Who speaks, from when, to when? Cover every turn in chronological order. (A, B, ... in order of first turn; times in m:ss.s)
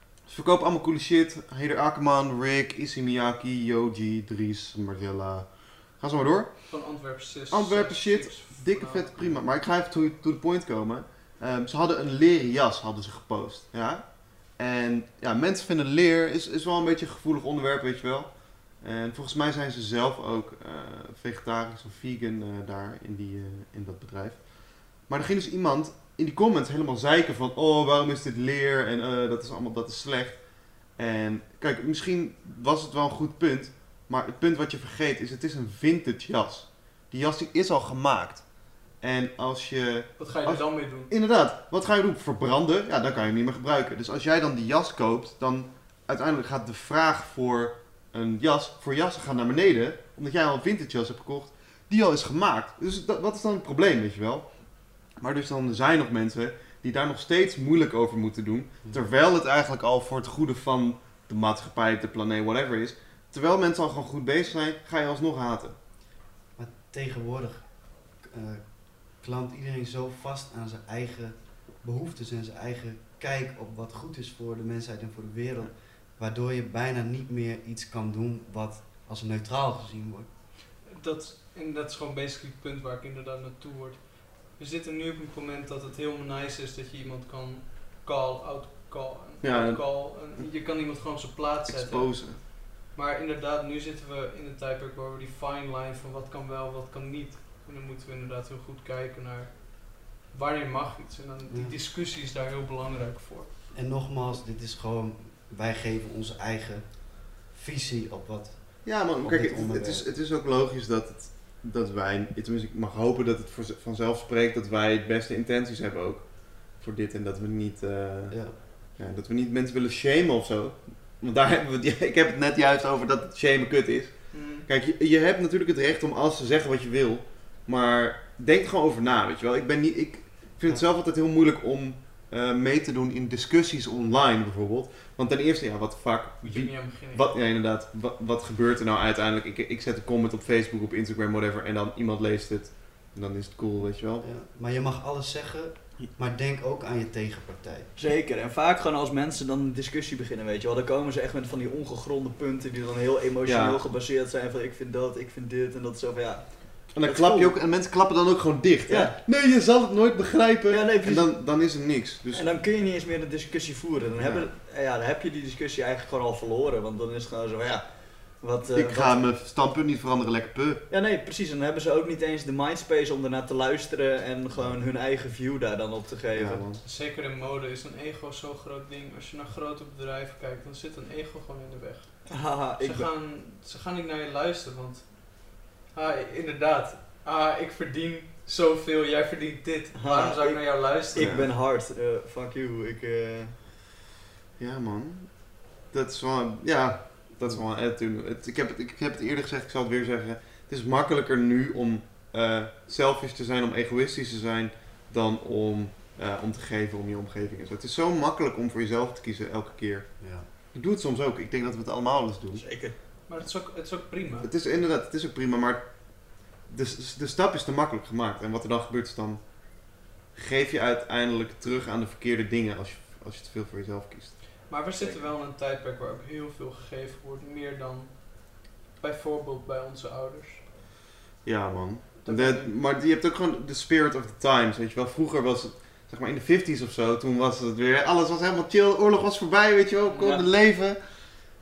0:00.2-0:06.9 A
0:06.7-0:09.4 B
0:07.5-0:30.4 A
0:31.0-0:38.4 A
0:39.0-0:54.5 A
0:40.2-0:41.1 B
0:55.1-1:05.8 A
0:58.8-0:59.1 C
1:06.6-1:20.3 C
1:20.8-1:43.5 B
1:29.4-1:30.5 A
1:31.7-1:32.4 A
1:41.5-1:41.8 C
1:43.7-1:50.0 C
1:48.8-2:24.2 A
1:58.3-1:58.6 C
2:04.3-2:04.7 B
2:16.4-2:17.3 B
2:24.2-2:27.9 C
2:28.0-2:37.6 D
2:33.4-2:33.8 A
2:36.9-2:42.5 A
2:38.9-2:39.2 D
2:40.7-2:41.3 D
2:42.3-2:49.2 D
2:44.2-2:44.5 A
2:48.7-2:50.8 A
2:50.9-2:56.6 D
2:56.3-2:56.8 A
2:56.8-3:11.4 B
3:02.3-3:03.1 D
3:09.9-3:13.6 D
3:11.2-3:11.5 A
3:14.6-3:30.1 A
3:30.2-3:30.4 C
3:30.7-3:32.6 A
3:32.6-3:32.9 D
3:33.3-3:34.5 B
3:34.4-3:39.4 A
3:40.3-3:44.4 A
3:44.7-3:50.6 B
3:51.4-4:01.0 A
3:52.2-3:52.7 B
4:00.1-4:00.4 D